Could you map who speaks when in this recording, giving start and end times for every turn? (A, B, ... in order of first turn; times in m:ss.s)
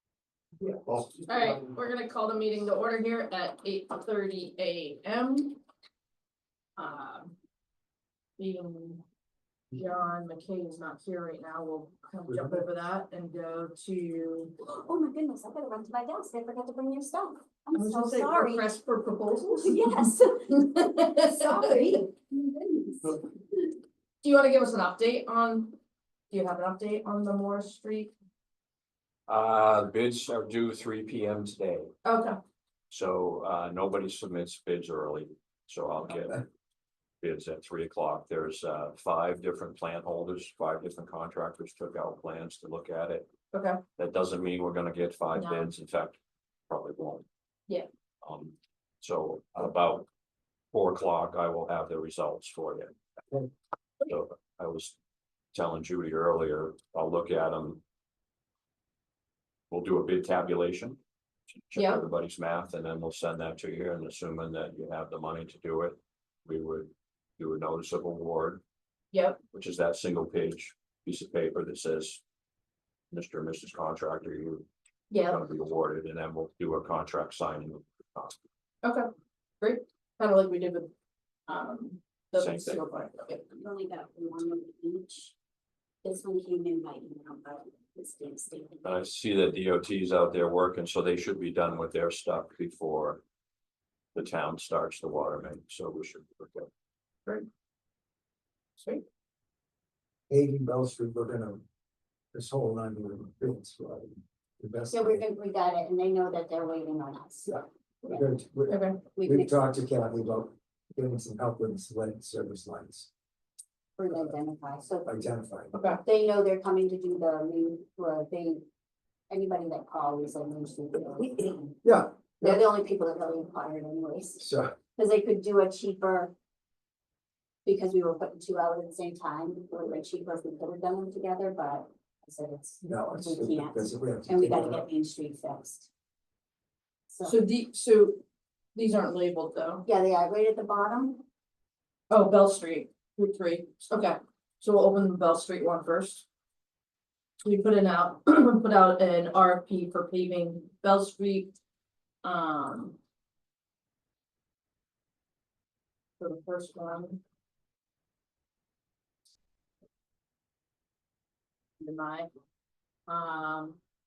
0:00.6-0:01.8 A
0:01.2-0:05.6 B
0:06.8-0:07.3 B
0:08.4-0:09.0 B
0:09.7-0:14.6 B
0:12.3-0:12.7 A
0:14.6-0:18.7 C
0:17.7-0:22.0 B
0:19.5-0:20.7 C
0:21.2-0:23.2 C
0:24.2-0:25.8 B
0:26.3-0:28.1 B
0:29.3-0:31.9 D
0:32.0-0:32.4 B
0:32.9-0:36.4 D
0:37.2-0:43.3 D
0:43.5-0:43.8 B
0:44.0-0:46.2 D
0:45.3-0:45.7 B
0:46.7-0:47.2 D
0:48.2-0:50.1 D
0:50.7-0:53.0 D
0:54.1-0:55.0 D
0:55.5-0:57.8 D
0:59.7-1:01.0 D
1:01.5-1:08.6 D
1:01.7-1:02.0 B
1:09.1-1:09.4 B
1:09.5-1:12.2 D
1:13.1-1:14.7 D
1:15.1-1:15.4 B
1:15.2-1:18.4 D
1:19.6-1:20.9 B
1:21.5-1:23.6 B
1:22.4-1:22.8 D
1:23.6-1:25.3 C
1:26.0-1:29.0 C
1:28.8-1:33.2 D
1:34.1-1:36.7 D
1:38.8-1:39.0 B
1:40.3-1:41.6 A
1:42.3-1:45.2 A
1:44.9-1:47.5 C
1:47.4-1:53.1 A
1:48.7-1:49.1 B
1:49.2-1:49.7 C
1:54.0-1:55.1 C
1:55.0-1:55.8 A
1:55.7-1:56.0 B
1:56.0-1:58.7 C
1:59.3-2:01.8 C
2:01.8-2:02.6 A
2:02.4-2:04.4 C
2:04.4-2:04.7 A
2:05.0-2:06.3 C
2:07.6-2:15.9 C
2:12.8-2:14.9 A
2:17.1-2:17.4 C
2:17.2-2:18.2 B
2:18.8-2:19.8 B
2:19.8-2:21.2 C
2:22.1-2:26.2 B
2:27.4-2:31.5 B
2:32.2-2:33.0 B
2:36.2-2:37.2 B
2:41.8-2:42.3 B
2:43.1-2:43.8 B